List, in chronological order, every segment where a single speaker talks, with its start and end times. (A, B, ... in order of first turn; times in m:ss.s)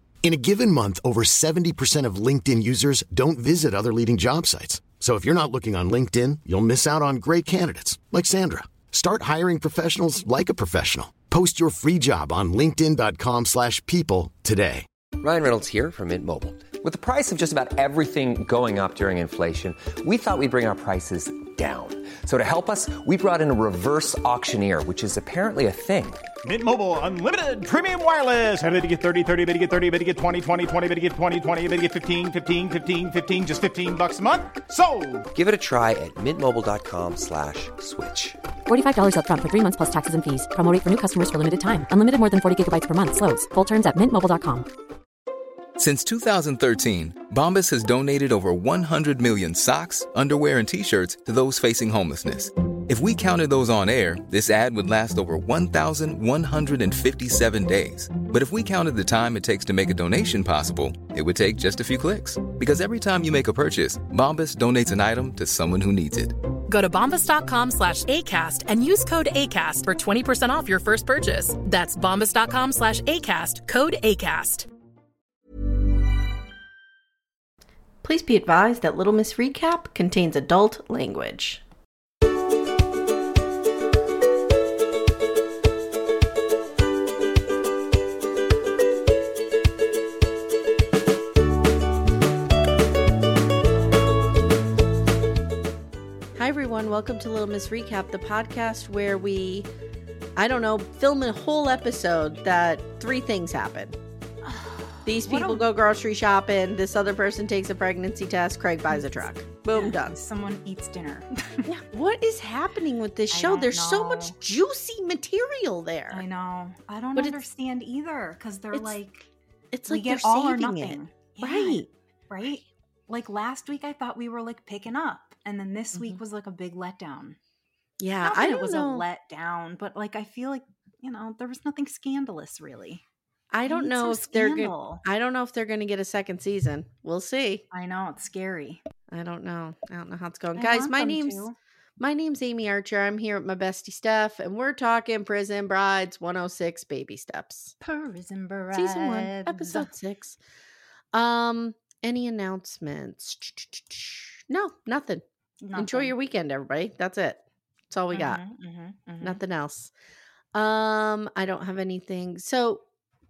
0:00.2-0:14.8 A
0:15.2-0:26.2 B
0:26.4-0:35.3 C
0:35.3-0:38.4 B
0:38.7-0:44.7 D
0:45.8-1:06.3 E
1:06.7-1:14.7 F
1:18.0-1:21.6 G
1:36.4-1:39.7 G
1:40.4-1:44.0 G
1:44.4-1:45.7 H
1:45.0-1:50.2 G
1:49.7-1:51.7 H
1:51.6-1:56.2 G
1:53.3-1:54.4 H
1:56.1-1:59.3 H
1:57.2-1:57.4 G
1:59.7-2:01.9 G
1:59.9-2:07.4 H
2:05.9-2:06.2 G
2:08.0-2:09.1 G
2:08.2-2:13.0 H
2:13.5-2:17.6 G
2:13.6-2:15.0 H
2:17.7-2:18.8 H
2:19.1-2:21.4 G
2:20.5-2:21.6 H
2:22.0-2:27.7 G
2:27.8-2:29.9 H
2:28.7-2:30.4 G
2:31.1-2:35.2 G
2:35.6-2:36.1 H
2:35.7-2:38.4 G
2:38.1-2:39.4 H
2:39.2-2:39.9 G
2:40.5-2:42.8 G